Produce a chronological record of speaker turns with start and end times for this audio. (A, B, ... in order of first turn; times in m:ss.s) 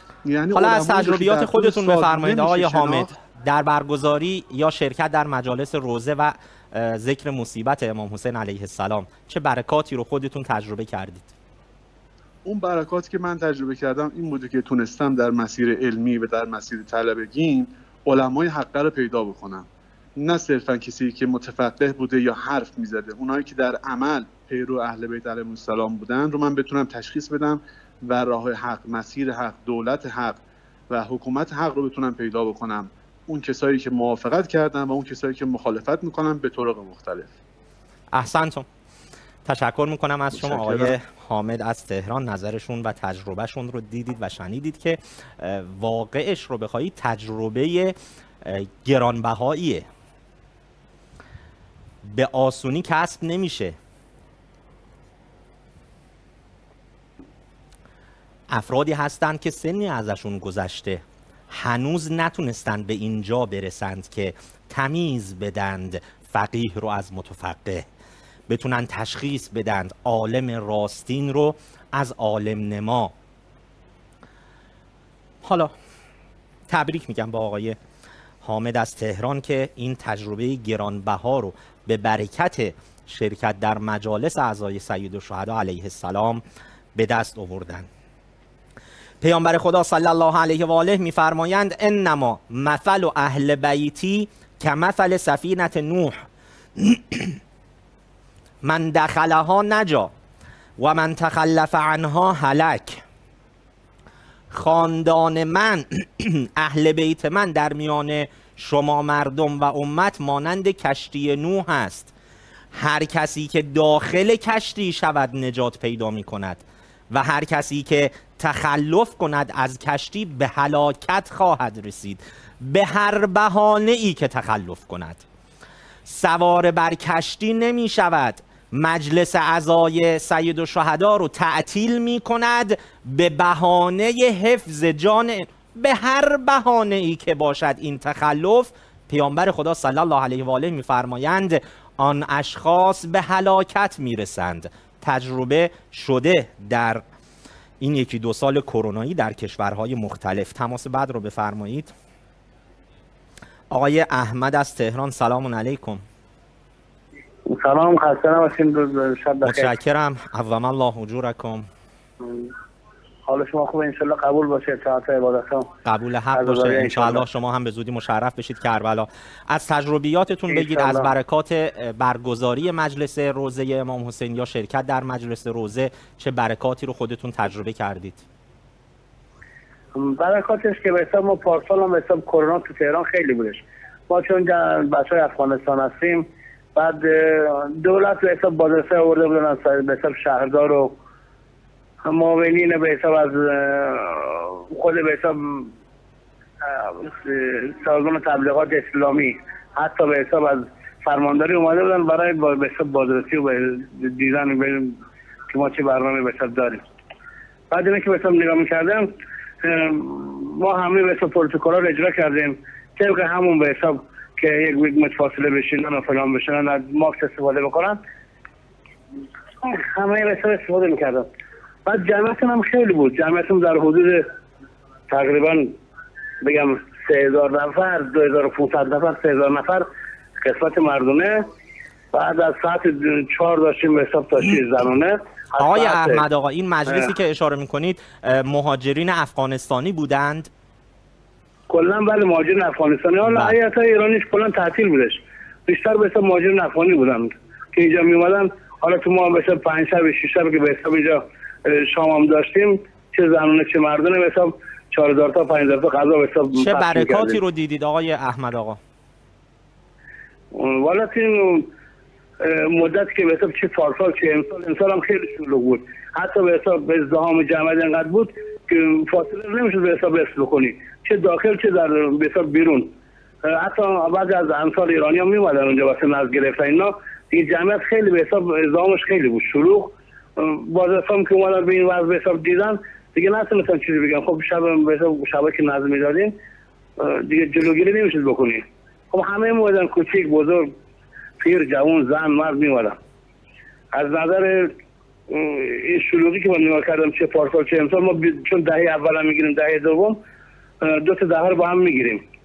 0:00.2-0:03.1 A
0:00.5-0:11.3 B
0:12.4-0:37.3 A
0:38.1-0:38.7 B
0:39.4-0:49.9 B
0:40.3-0:41.0 A
0:52.0-0:53.8 B
0:58.5-1:07.9 B
1:08.5-1:13.1 B
1:15.4-1:15.7 B
1:16.7-1:17.8 B
1:18.4-1:26.4 B
1:27.0-1:27.9 B
1:29.2-1:36.2 B
1:36.8-1:37.4 B
1:38.6-1:40.1 B
1:40.8-1:43.0 B
1:44.5-1:52.1 B
1:52.7-2:05.2 B
2:06.1-2:27.0 B
2:27.8-2:31.9 B
2:33.7-2:36.0 B
2:37.5-2:39.7 C
2:39.4-2:41.7 B
2:42.2-2:42.5 C
2:43.3-2:45.7 C
2:45.8-2:58.2 B
2:46.3-2:47.2 C
2:50.5-2:51.1 C
2:59.9-3:10.9 C
3:12.0-3:15.7 C
3:16.6-3:25.0 C
3:25.5-3:26.8 C
3:27.7-3:29.1 C
3:29.6-3:38.0 C
3:39.6-3:41.3 C
3:41.8-3:44.2 C
3:45.1-3:45.7 C
3:46.4-3:49.9 C
3:50.4-3:51.4 C
3:52.1-3:56.2 C
3:55.6-4:00.5 B
4:01.7-4:17.4 C
4:03.3-4:03.5 B
4:16.6-4:18.8 B
4:20.5-4:21.7 C
4:22.4-4:32.9 C
4:33.4-4:46.3 C
4:47.0-4:50.7 C
4:51.4-4:53.0 C
4:53.9-4:54.7 C
4:55.3-5:00.2 C
5:00.8-5:02.2 C